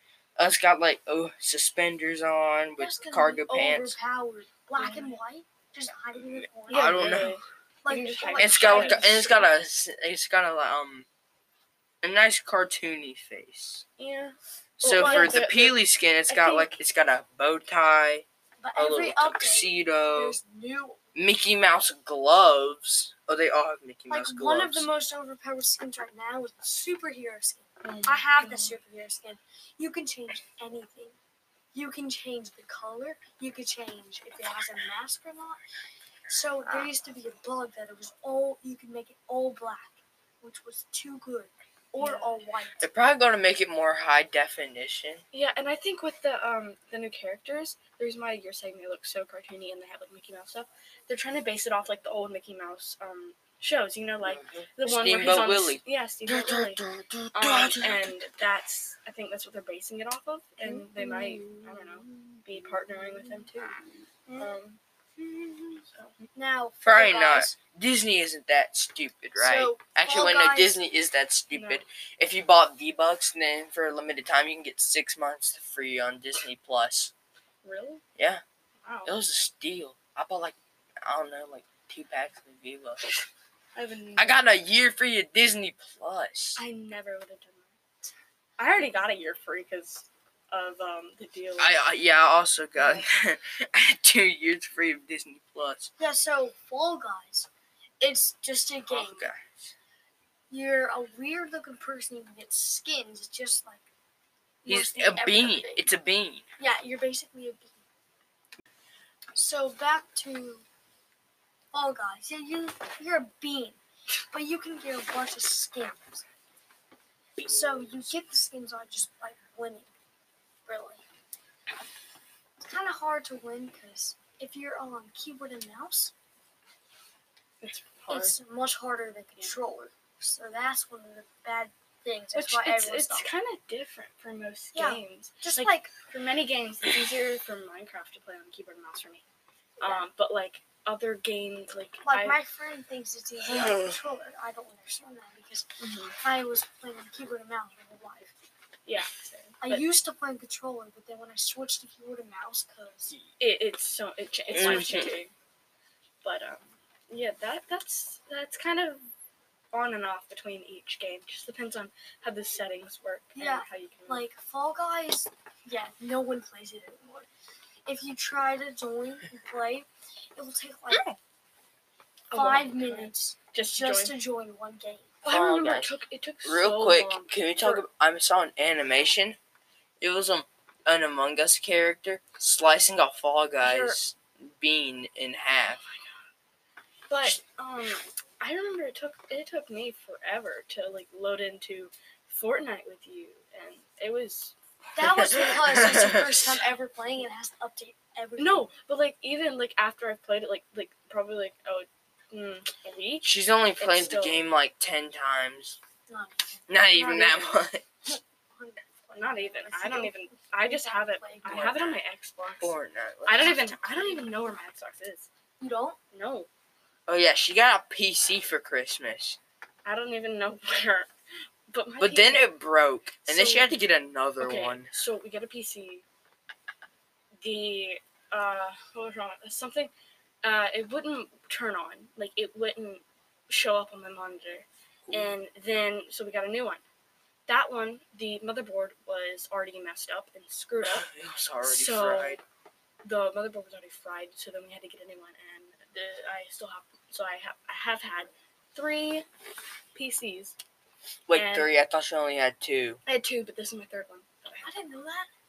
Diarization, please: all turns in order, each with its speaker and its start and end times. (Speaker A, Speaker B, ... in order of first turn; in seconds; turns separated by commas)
Speaker A: 0.4-4.0, Speaker B: 2.8-7.3, Speaker C: 4.8-5.1, Speaker A: 6.6-7.4, Speaker C: 6.7-9.1, Speaker B: 7.8-9.5, Speaker A: 8.4-11.1, Speaker A: 12.0-13.8, Speaker C: 14.0-16.8, Speaker A: 14.8-18.2, Speaker B: 14.9-15.4, Speaker B: 18.6-21.0, Speaker A: 18.8-20.4, Speaker A: 21.1-24.9, Speaker B: 24.1-31.2, Speaker C: 27.8-28.7, Speaker B: 31.7-35.6, Speaker B: 36.3-42.9, Speaker C: 42.0-42.3, Speaker A: 42.8-45.2, Speaker C: 45.3-63.8, Speaker A: 54.2-58.1, Speaker B: 60.6-61.1, Speaker A: 61.2-62.4, Speaker B: 64.3-64.5, Speaker C: 64.4-64.8, Speaker B: 65.2-67.6, Speaker A: 66.8-77.1, Speaker B: 69.4-70.8, Speaker C: 71.5-71.8, Speaker C: 77.6-78.0, Speaker A: 78.2-78.4, Speaker C: 78.8-79.1, Speaker A: 79.0-83.2, Speaker C: 83.7-84.4, Speaker A: 84.2-86.6, Speaker C: 86.5-87.7, Speaker C: 88.6-91.8, Speaker A: 91.6-95.9, Speaker B: 96.0-97.5, Speaker B: 98.0-99.3, Speaker A: 98.9-99.7, Speaker B: 100.5-103.8, Speaker B: 104.6-105.9, Speaker A: 104.7-106.5, Speaker B: 106.6-107.8, Speaker B: 109.3-110.7, Speaker B: 111.7-113.8, Speaker B: 114.3-116.2, Speaker A: 117.4-118.1, Speaker B: 117.4-119.9, Speaker B: 120.7-121.0, Speaker B: 122.6-126.1, Speaker C: 127.6-128.3, Speaker B: 128.1-133.3, Speaker C: 132.3-139.2, Speaker B: 134.7-135.9, Speaker B: 139.8-140.1, Speaker C: 139.8-142.4, Speaker B: 142.0-148.3, Speaker A: 143.6-143.9, Speaker C: 145.8-146.2, Speaker C: 148.8-149.8, Speaker B: 149.6-153.1, Speaker C: 153.4-155.3, Speaker A: 154.5-155.2, Speaker C: 156.2-159.0, Speaker C: 159.7-164.2, Speaker B: 163.3-167.3, Speaker B: 167.8-171.1, Speaker C: 172.3-174.2, Speaker B: 172.3-175.2, Speaker C: 175.2-177.8, Speaker A: 175.2-179.4, Speaker A: 180.0-185.8, Speaker C: 183.6-184.0, Speaker C: 185.6-186.2, Speaker C: 187.1-194.5, Speaker B: 194.9-198.7, Speaker A: 195.0-196.5, Speaker C: 198.4-204.4, Speaker A: 203.2-205.8, Speaker B: 206.1-207.3, Speaker A: 206.7-207.8, Speaker C: 206.9-207.5, Speaker B: 208.1-212.0, Speaker C: 209.1-215.3, Speaker A: 212.6-213.9, Speaker B: 213.9-214.3, Speaker B: 215.6-216.0, Speaker C: 216.1-216.5, Speaker A: 217.1-219.4, Speaker C: 219.8-221.1, Speaker C: 221.7-222.5, Speaker A: 222.0-224.9, Speaker B: 223.3-223.7, Speaker C: 224.4-226.0, Speaker C: 227.4-229.9, Speaker C: 230.4-236.8, Speaker A: 235.1-235.3, Speaker C: 237.5-241.1, Speaker A: 240.8-242.4, Speaker C: 241.6-242.4, Speaker C: 243.0-249.2, Speaker C: 249.9-250.5, Speaker A: 251.3-253.0, Speaker C: 251.3-251.7, Speaker C: 253.0-254.7, Speaker B: 254.6-255.3